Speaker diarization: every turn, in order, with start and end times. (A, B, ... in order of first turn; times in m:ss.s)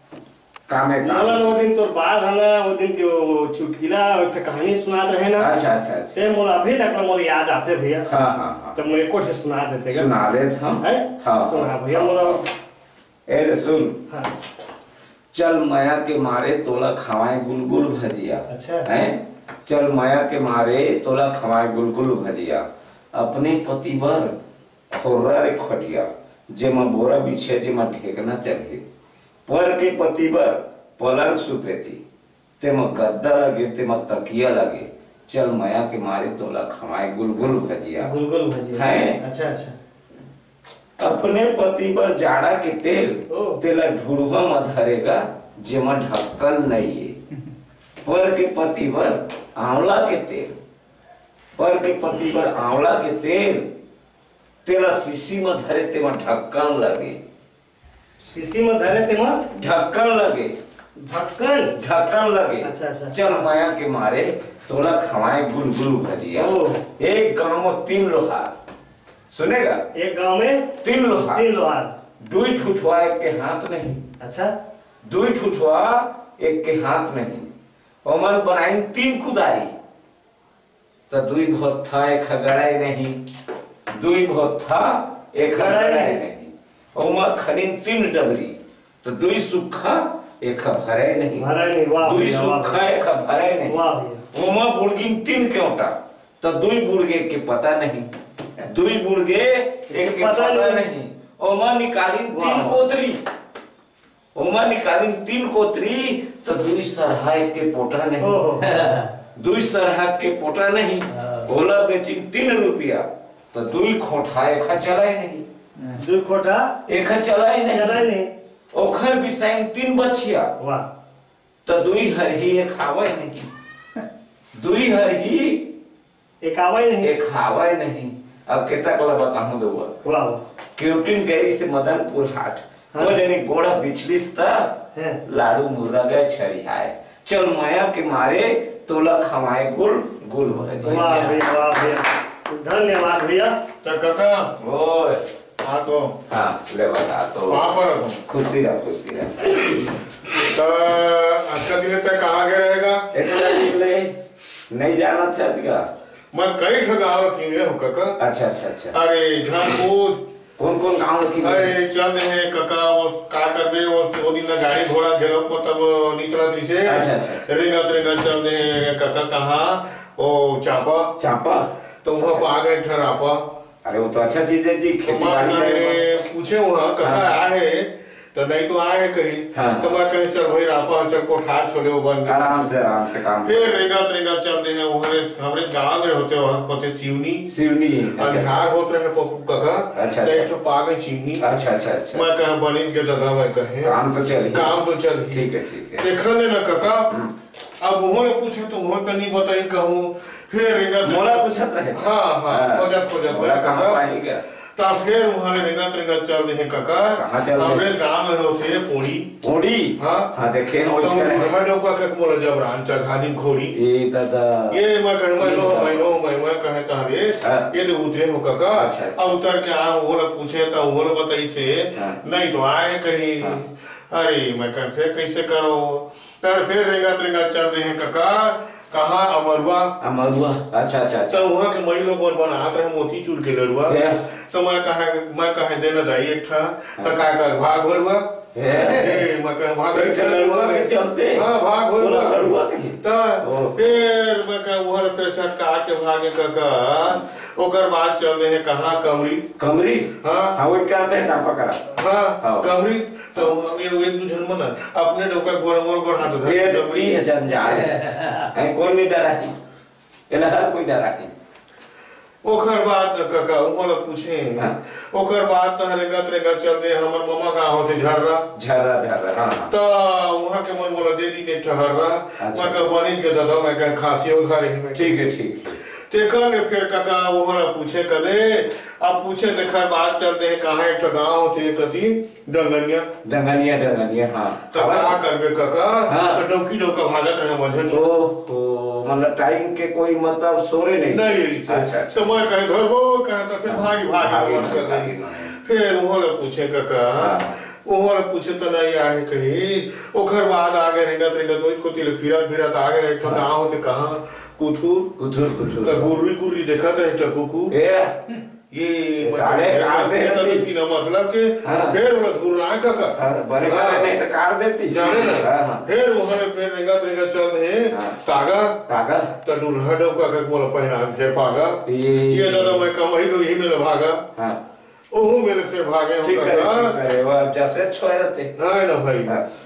0:00.7-0:01.6 A
0:01.1-0:05.5 B
0:05.4-0:06.2 A
0:06.2-0:08.1 B
0:08.1-0:08.8 A
0:08.8-0:10.1 B
0:09.9-0:12.4 A
0:10.8-0:12.4 B
0:13.3-0:14.0 A
0:15.3-0:22.6 A
0:18.5-0:18.9 B
0:23.2-0:24.3 A
0:24.9-0:28.8 A
0:29.5-0:32.0 A
0:32.6-0:38.1 A
0:38.0-0:39.8 B
0:38.7-0:39.2 A
0:41.0-0:47.2 A
0:43.3-0:43.6 B
0:48.0-0:50.6 A
0:51.6-0:53.7 A
0:54.6-0:57.2 A
0:58.3-0:59.5 B
0:59.6-1:00.6 A
1:01.0-1:01.7 B
1:01.8-1:08.5 A
1:02.7-1:03.4 B
1:06.4-1:06.8 B
1:09.3-1:09.8 A
1:10.0-1:10.7 B
1:10.8-1:11.4 A
1:11.3-1:11.9 B
1:12.2-1:14.0 A
1:14.2-1:14.5 B
1:15.1-1:17.5 A
1:18.0-1:19.7 A
1:21.1-1:23.2 A
1:23.9-1:31.5 A
1:25.6-1:26.2 B
1:31.4-1:32.8 B
1:32.0-1:33.8 A
1:33.7-1:34.2 B
1:34.3-1:38.1 A
1:38.6-1:43.2 A
1:39.9-1:40.8 B
1:42.3-1:42.8 B
1:44.4-1:48.4 A
1:48.2-1:49.1 B
1:49.4-1:55.5 A
1:56.0-1:56.7 B
1:56.9-1:58.1 A
1:57.7-1:58.3 B
1:58.7-2:00.5 A
2:00.6-2:00.9 B
2:01.6-2:03.5 A
2:04.6-2:05.6 A
2:06.4-2:07.1 B
2:07.0-2:09.9 A
2:10.0-2:10.4 B
2:10.8-2:14.7 A
2:13.0-2:13.2 B
2:15.3-2:21.5 A
2:20.8-2:23.6 B
2:23.8-2:24.6 C
2:24.6-2:25.2 A
2:25.6-2:26.1 C
2:26.3-2:27.7 A
2:27.5-2:28.2 C
2:28.3-2:29.9 A
2:30.5-2:33.1 C
2:33.1-2:34.1 A
2:34.7-2:35.9 A
2:36.3-2:38.2 C
2:38.2-2:39.0 A
2:38.9-2:40.2 C
2:40.6-2:41.7 A
2:41.4-2:51.1 C
2:46.9-2:47.5 A
2:51.2-2:52.5 A
2:52.0-2:53.4 C
2:53.8-2:56.0 A
2:55.0-3:07.5 C
2:57.0-2:57.3 A
2:59.5-3:00.0 A
3:02.3-3:03.9 A
3:07.5-3:08.6 A
3:08.1-3:11.5 C
3:10.0-3:10.5 A
3:11.4-3:12.3 A
3:12.1-3:14.0 C
3:13.8-3:14.8 A
3:14.5-3:17.1 C
3:15.3-3:16.1 A
3:17.8-3:24.0 C
3:21.0-3:24.4 A
3:24.8-3:29.3 C
3:27.1-3:27.9 A
3:29.4-3:31.6 A
3:30.0-3:30.3 C
3:31.0-3:33.8 C
3:33.7-3:34.8 A
3:34.7-3:49.9 C
3:35.4-3:36.2 A
3:37.4-3:37.7 A
3:38.7-3:39.4 A
3:50.0-3:51.5 A
3:51.3-4:09.5 C
3:53.9-3:54.2 A
3:58.6-3:59.3 A
3:59.9-4:03.8 A
4:09.6-4:11.9 A
4:10.2-4:10.6 C
4:11.9-4:17.2 C
4:12.4-4:12.7 A
4:16.3-4:19.6 A
4:20.3-4:21.3 A
4:22.4-4:28.5 C
4:28.6-4:29.7 A
4:29.7-4:35.2 C
4:32.4-4:32.9 A
4:35.0-4:35.8 A
4:36.1-4:43.1 C
4:43.2-4:45.2 A
4:44.7-4:48.0 C
4:46.1-4:46.4 A
4:47.9-4:52.5 A
4:51.1-5:05.1 C
4:53.7-4:55.5 A
4:57.2-4:57.5 A
5:05.2-5:06.1 A
5:05.8-5:07.7 C
5:07.7-5:08.2 A
5:08.7-5:14.1 C
5:09.2-5:10.7 A
5:11.6-5:12.0 A
5:13.2-5:15.9 A
5:14.9-5:18.8 C
5:17.9-5:18.2 A
5:18.9-5:19.3 A
5:19.4-5:24.2 C
5:21.9-5:22.9 A
5:25.1-5:27.0 C
5:26.2-5:28.6 A
5:28.6-5:29.4 C